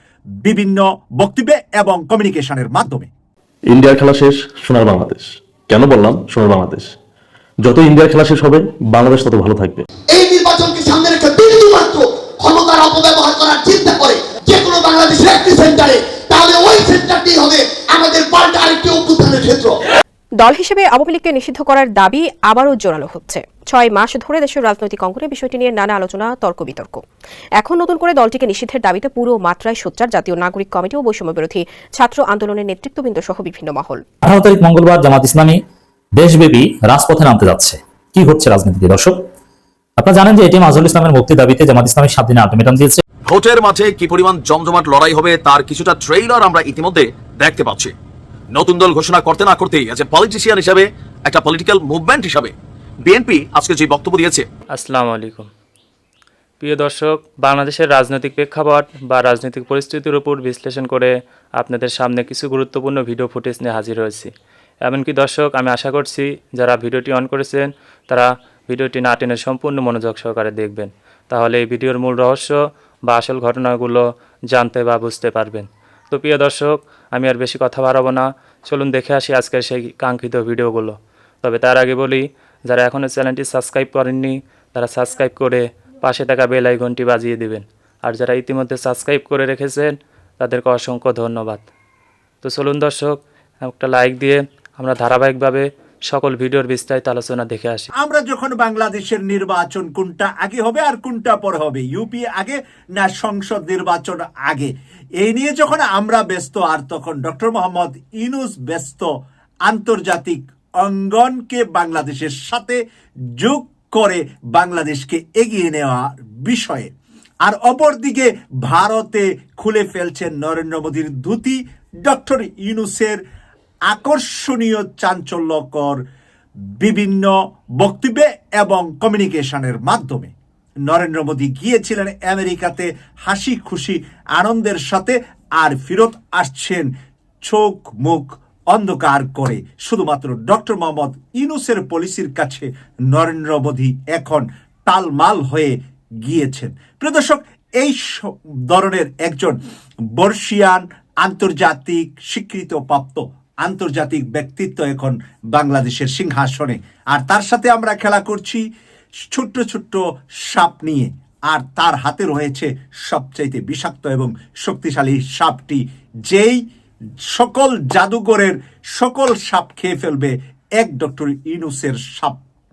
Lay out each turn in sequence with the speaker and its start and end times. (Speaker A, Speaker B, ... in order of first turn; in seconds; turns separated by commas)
Speaker A: 0.4-3.1, Speaker B: 3.7-6.9, Speaker B: 7.6-9.8, Speaker C: 10.1-19.8, Speaker D: 20.4-27.0, Speaker D: 27.6-34.0, Speaker E: 34.2-35.6, Speaker E: 36.2-39.1, Speaker E: 40.0-43.0, Speaker F: 43.3-47.9, Speaker F: 48.5-52.5, Speaker F: 53.1-54.5, Speaker G: 54.7-55.5, Speaker G: 56.6-64.3, Speaker G: 64.8-91.6, Speaker G: 92.4-97.9, Speaker A: 98.0-109.1, Speaker A: 109.7-112.8, Speaker A: 113.4-116.9, Speaker A: 117.4-123.2, Speaker A: 123.9-126.0, Speaker A: 126.8-130.3, Speaker A: 130.9-136.9, Speaker A: 137.4-149.6, Speaker A: 150.2-158.7, Speaker A: 159.3-166.6, Speaker A: 167.3-172.4